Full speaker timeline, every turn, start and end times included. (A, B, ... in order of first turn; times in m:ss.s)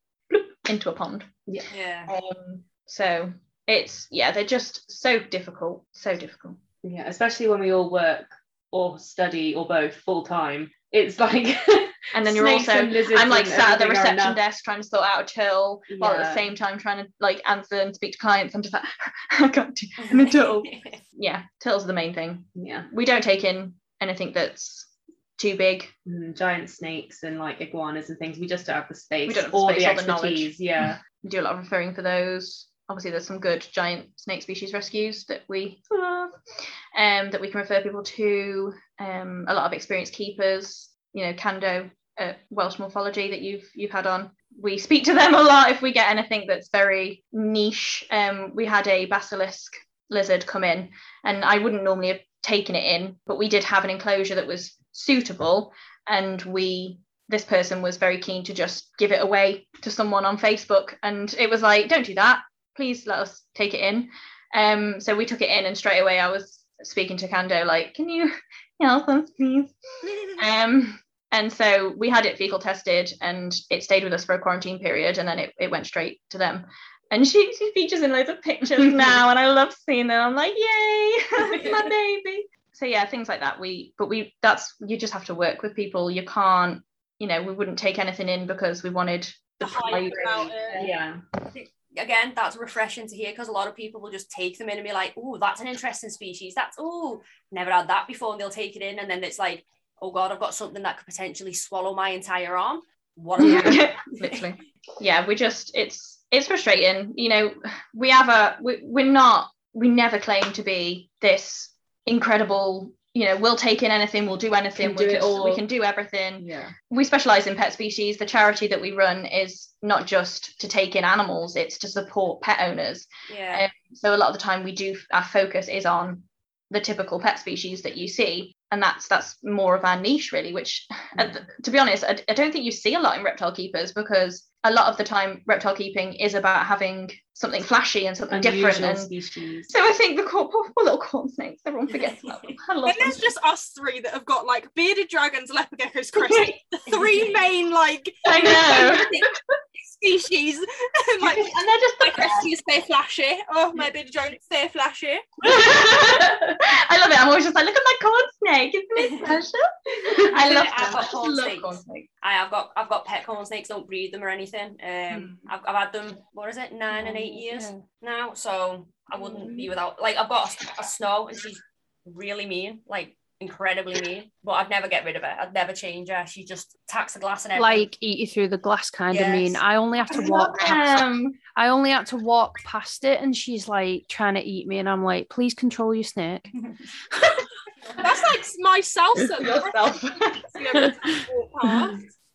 0:00.3-0:01.3 A
0:01.7-0:02.1 B
0:02.1-0:06.6 A
0:06.8-0:14.4 C
0:12.1-0:25.9 A
0:15.9-0:16.4 C
0:20.0-0:21.0 B
0:22.6-0:22.9 C
0:26.1-0:31.0 C
0:29.3-0:36.4 A
0:37.0-1:09.7 A
1:10.1-1:10.4 D
1:10.4-1:30.9 A
1:18.8-1:19.2 C
1:29.6-1:30.9 D
1:29.9-1:31.2 C
1:31.5-1:44.4 B
1:43.4-2:19.1 A
1:43.4-1:43.8 C
1:54.8-1:55.6 C
1:56.4-1:56.7 C
2:03.3-2:03.7 B
2:18.3-2:19.7 C
2:19.7-2:23.3 A
2:21.9-2:22.6 B
2:22.8-2:29.3 D
2:26.2-2:26.5 A
2:26.9-2:27.3 B
2:28.2-2:29.2 A
2:28.8-2:29.0 C
2:29.8-2:35.5 D
2:31.3-2:32.5 A
2:35.4-2:42.1 A
2:35.6-2:36.5 C
2:40.3-2:57.9 B
2:45.1-2:45.5 A
2:47.0-2:47.8 E
2:57.6-3:01.0 E
2:59.1-2:59.6 B
3:00.2-3:01.4 A
3:01.5-3:06.5 E
3:07.8-3:08.1 B
3:08.0-3:12.0 D
3:09.4-3:10.4 A